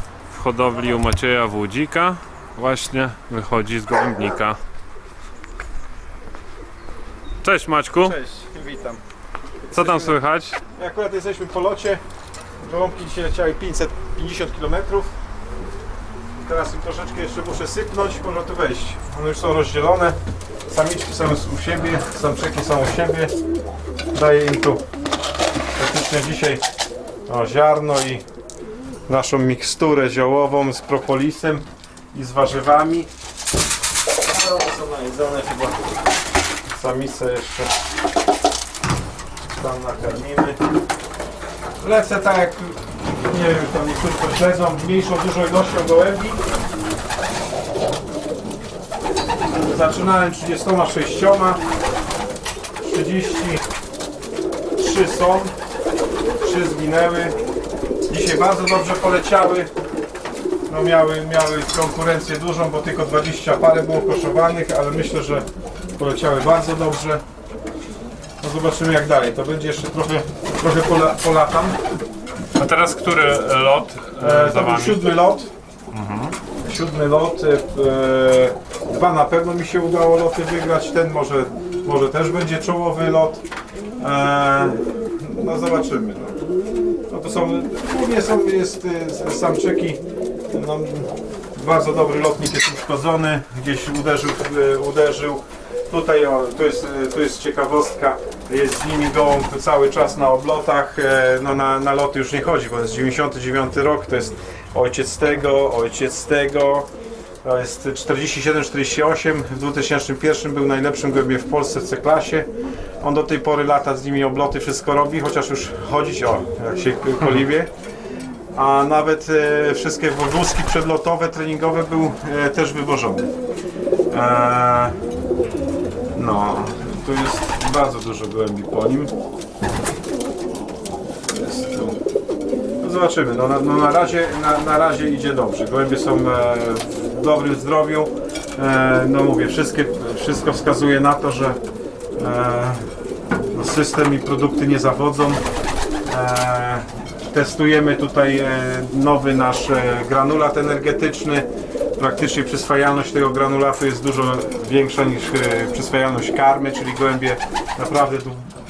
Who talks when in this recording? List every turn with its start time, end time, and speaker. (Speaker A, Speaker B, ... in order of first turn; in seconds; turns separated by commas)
Speaker A: 0.3-4.6, Speaker A: 7.4-8.2, Speaker B: 8.0-9.0, Speaker B: 9.7-12.0, Speaker A: 9.7-10.6, Speaker B: 12.6-15.1, Speaker B: 16.4-20.1, Speaker B: 20.7-23.3, Speaker B: 24.1-24.8, Speaker B: 25.8-26.6, Speaker B: 27.3-28.2, Speaker B: 29.1-33.1, Speaker B: 34.2-35.8, Speaker B: 36.7-37.7, Speaker B: 39.5-40.6, Speaker B: 41.8-46.4, Speaker B: 49.5-51.6, Speaker B: 52.8-53.6, Speaker B: 54.8-55.5, Speaker B: 56.4-57.4, Speaker B: 58.1-59.7, Speaker B: 60.7-65.5, Speaker B: 66.0-67.2, Speaker B: 68.4-71.8, Speaker A: 72.5-75.0, Speaker B: 74.2-75.5, Speaker A: 75.9-76.4, Speaker B: 76.6-83.4, Speaker B: 84.0-86.3, Speaker B: 87.1-106.9, Speaker B: 107.4-112.5, Speaker B: 113.0-117.7, Speaker B: 118.5-123.3, Speaker B: 124.1-125.0, Speaker B: 126.1-129.1, Speaker B: 131.3-132.0, Speaker B: 132.8-141.6, Speaker B: 142.2-142.8, Speaker B: 143.5-145.4, Speaker B: 146.1-151.5, Speaker B: 152.0-158.5